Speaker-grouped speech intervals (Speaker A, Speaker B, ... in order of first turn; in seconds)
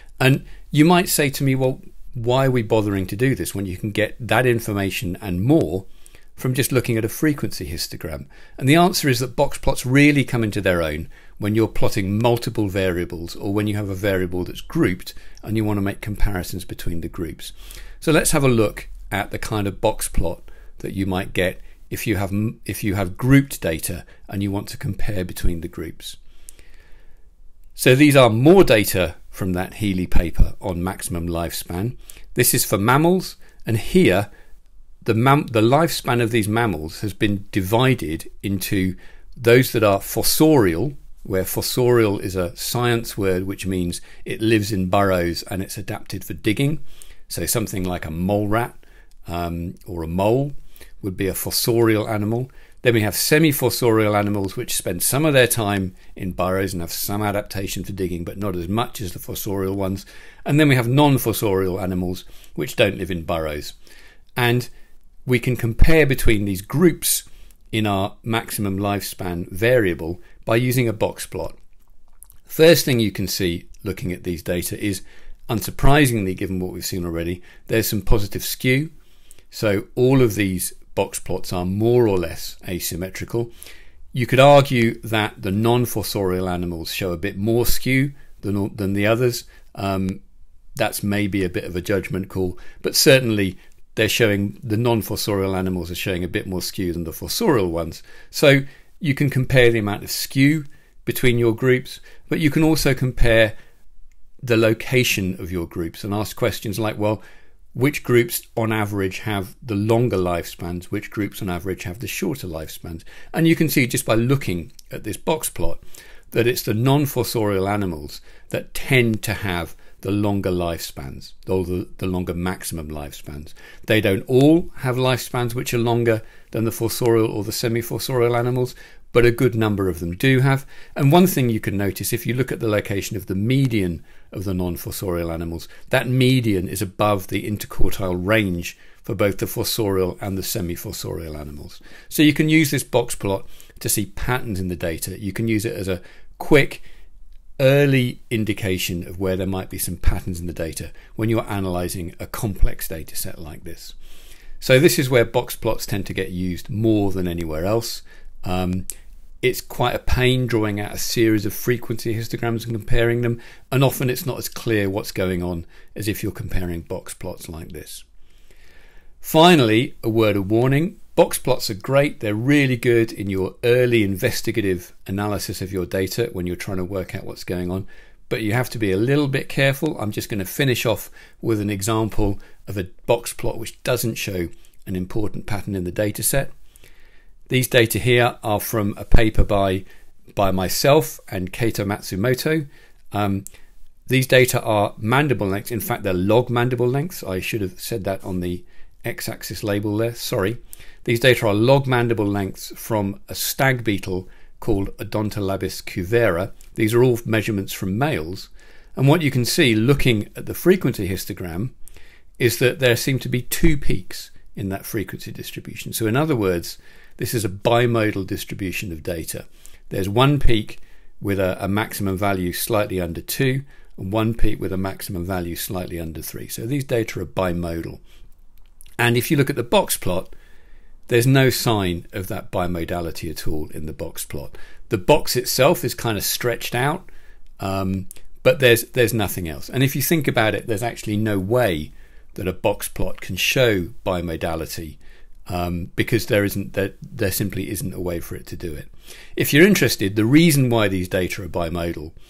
Speaker A: 0.2-26.2, 27.8-34.3, 35.0-63.7, 64.4-64.7, 65.2-71.5, 72.5-78.9, 79.5-83.5, 84.1-90.2, 90.8-103.5, 104.4-107.2, 107.7-115.8, 116.3-146.8, 147.6-153.9, 154.6-158.9, 159.4-168.0, 169.2-186.5, 187.5-193.4, 194.1-211.7, 212.4-228.0, 229.0-230.3, 231.1-237.1, 237.6-252.1